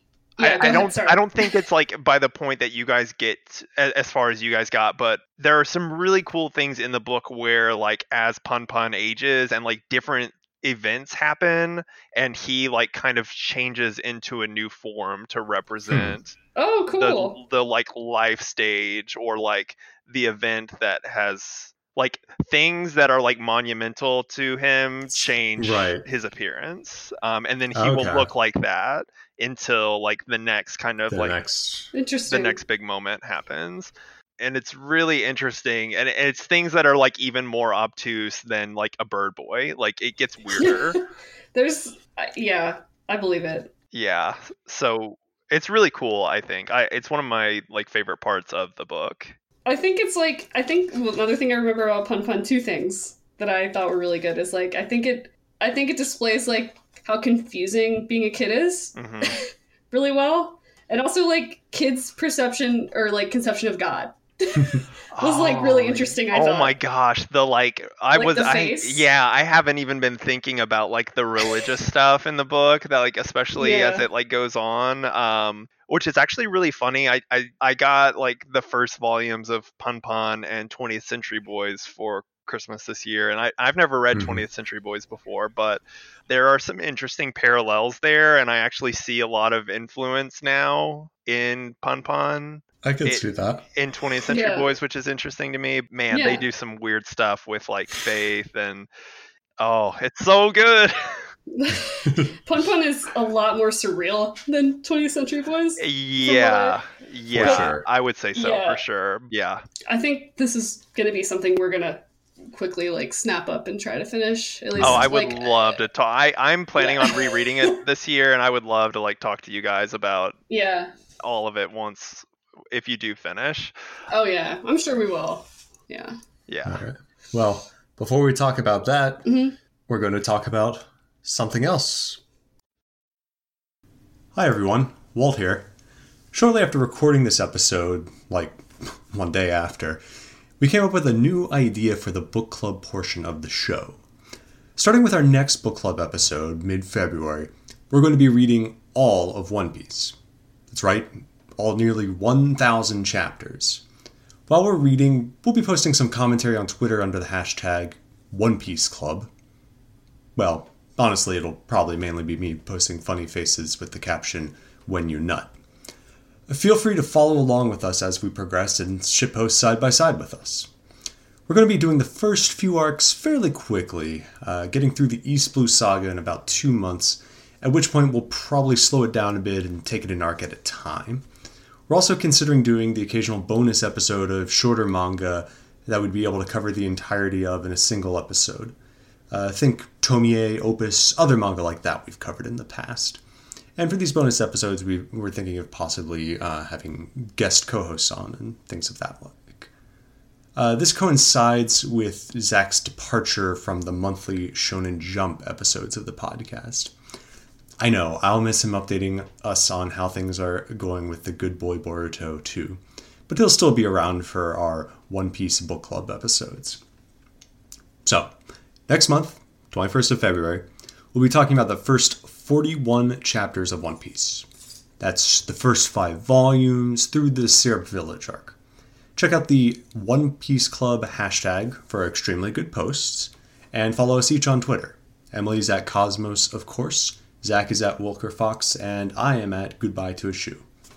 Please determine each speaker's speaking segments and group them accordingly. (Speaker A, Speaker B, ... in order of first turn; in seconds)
Speaker A: 0.4-1.5, 16.6-17.4, 31.9-32.6, 40.6-41.0, 41.5-43.7, 49.7-66.8, 68.2-69.0, 73.6-74.1, 94.3-94.7, 96.1-96.5, 101.5-106.8, 107.4-107.8, 108.3-108.8, 109.9-115.8, 116.8-117.8, 120.5-120.9, 124.1-126.2, 129.2-129.6
Speaker B: 0.4-16.4, 16.9-31.4, 32.3-41.0, 43.9-49.4, 59.0-59.4, 65.1-98.9, 99.6-101.2, 105.8-109.6, 114.8-120.4, 121.2-123.7, 126.5-126.8
Speaker C: 15.9-16.2, 25.6-26.0, 27.7-28.3, 31.1-31.9, 84.1-84.5, 92.8-93.7, 102.0-102.3, 107.3-107.9, 114.8-115.1, 126.7-129.3, 129.9-132.2, 134.3-135.7, 136.3-140.0, 140.6-144.0, 144.8-150.2, 150.7-153.8, 154.5-159.3, 160.4-165.5, 166.5-170.7, 171.5-181.2, 181.9-188.8, 189.3-193.2, 193.8-199.7, 200.6-206.9, 207.8-216.8, 218.1-218.3, 218.9-224.5, 225.0-228.6, 229.2-240.7